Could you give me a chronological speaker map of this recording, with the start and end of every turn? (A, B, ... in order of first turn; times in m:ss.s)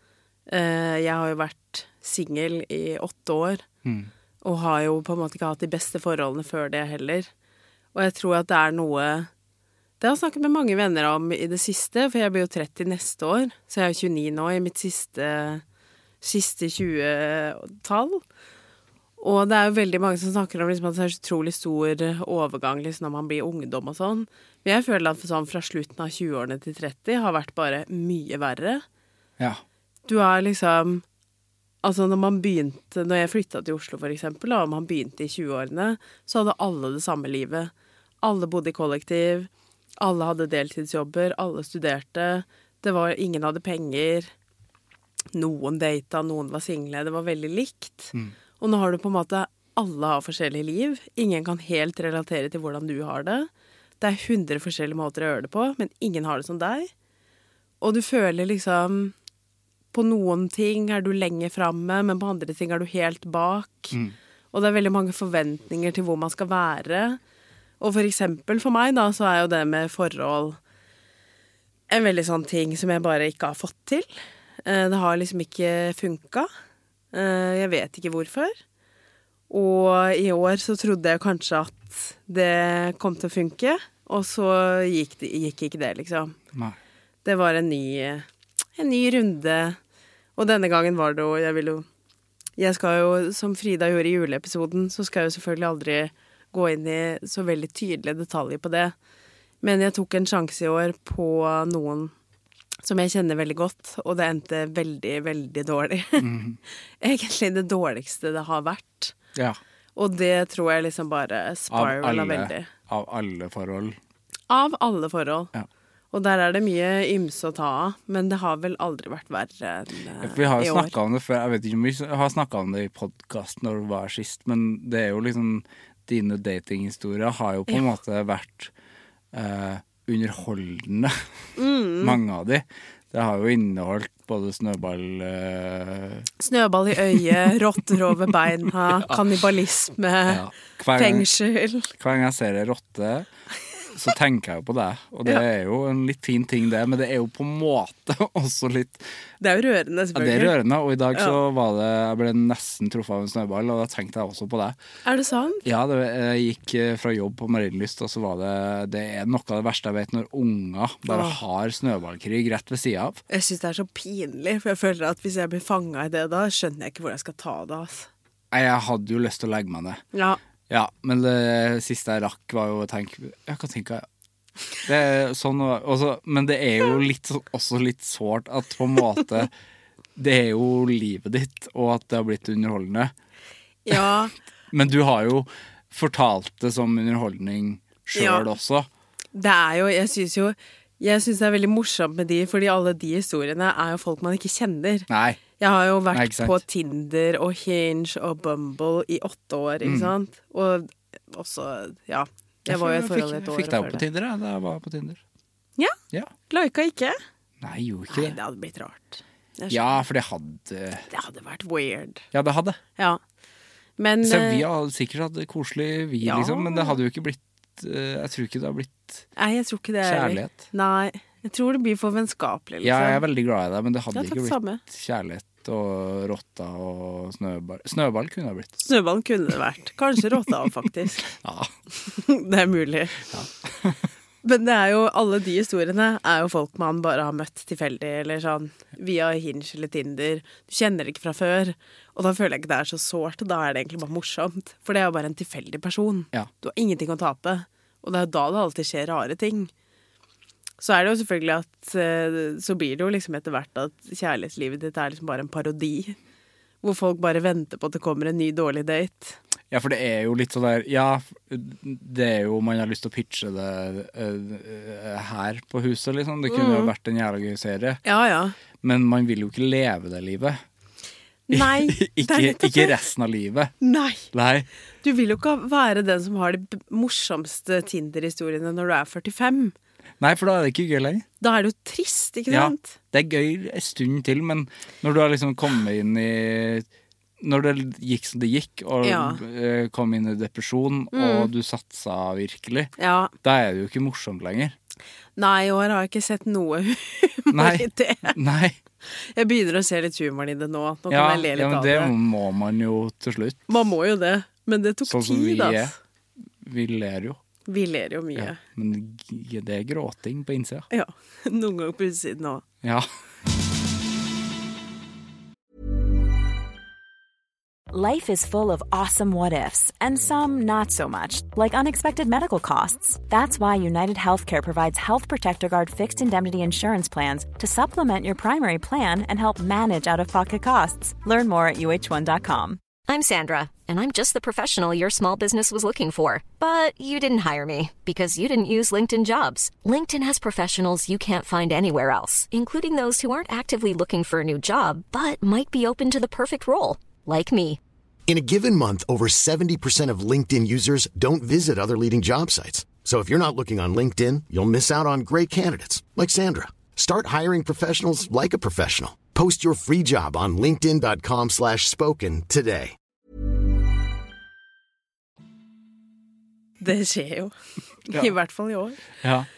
0:00.5-0:03.6 A
0:03.8-0:04.1 B
0:04.4-0:07.3 A
0:07.9-0:09.3 A
0:10.0-0:15.6 A
0:16.2-0:18.2 A
0:19.2-0:28.8 A
0:30.1-0:31.0 A
0:31.8-0:44.3 A
0:45.3-0:53.5 A
0:54.0-0:56.9 A
0:57.8-0:59.2 A
0:59.9-1:04.0 A
1:04.5-1:07.2 A
1:07.8-1:10.6 A
1:11.9-1:14.1 A
1:14.6-1:16.5 A
1:17.1-1:18.6 A
1:19.5-1:26.4 A
1:27.2-1:29.8 A
1:30.4-1:31.9 A
1:32.6-1:39.0 A
1:39.6-1:42.1 A
1:42.8-1:46.3 A
1:46.2-1:46.6 B
1:47.0-1:49.2 A
1:50.0-1:52.7 A
1:51.7-1:54.0 B
1:54.5-1:55.5 A
1:56.1-2:00.9 A
2:00.2-2:08.7 B
2:09.3-2:11.2 B
2:11.6-2:12.2 A
2:12.0-2:16.3 B
2:16.4-2:21.9 A
2:18.9-2:19.2 B
2:20.3-2:21.3 B
2:22.0-2:23.3 B
2:23.9-2:29.0 B
2:29.4-2:30.6 A
2:30.2-2:34.8 B
2:31.1-2:31.4 A
2:35.0-2:35.6 A
2:35.6-2:43.2 B
2:41.1-2:41.4 A
2:43.3-2:48.1 A
2:48.5-2:50.0 B
2:50.1-2:50.4 A
2:50.7-2:54.1 B
2:54.8-2:59.5 B
3:00.2-3:03.1 B
3:03.8-3:04.3 A
3:04.7-3:08.9 B
3:08.2-3:08.5 A
3:09.3-3:24.0 A
3:15.1-3:15.4 B
3:16.1-3:16.6 B
3:19.8-3:20.1 B
3:22.7-3:25.2 B
3:26.5-3:27.2 A
3:27.6-3:28.4 B
3:28.1-3:29.9 A
3:29.7-3:31.1 B
3:31.1-3:32.2 A
3:32.3-3:32.8 B
3:34.0-3:34.6 A
3:34.2-3:39.3 B
3:36.2-3:37.0 A
3:39.4-3:43.2 A
3:40.0-3:40.6 B
3:42.8-3:48.7 B
3:44.1-3:44.8 A
3:48.8-3:51.3 A
3:51.2-3:51.7 B
3:52.0-3:53.2 A
3:53.3-3:54.0 B
3:54.4-4:09.7 A
4:10.8-4:16.2 A
4:16.8-4:19.4 A
4:19.7-4:28.0 B
4:26.5-4:26.9 A
4:28.0-4:28.6 A
4:28.8-4:30.6 B
4:31.5-4:33.0 A
4:31.5-4:33.7 B
4:33.8-4:34.3 A
4:34.3-4:34.7 B
4:35.0-4:39.7 A
4:40.2-4:41.3 B
4:41.4-4:43.0 A
4:42.5-4:46.9 B
4:47.4-4:54.8 B
4:49.0-4:49.4 A
4:51.1-4:51.5 A
4:53.0-4:53.3 A
4:55.4-4:58.4 A
4:57.5-4:58.8 B
4:59.1-5:02.1 A
5:01.1-5:03.7 B
5:03.7-5:05.9 A
5:05.0-5:06.0 B
5:06.6-5:07.4 B
5:07.7-5:08.6 A
5:08.4-5:10.9 B
5:10.9-5:12.6 A
5:17.9-5:32.8 C
5:33.1-5:47.8 D
5:48.3-6:03.0 E
6:06.8-6:07.5 A
6:08.1-6:09.0 A
6:09.2-6:09.5 B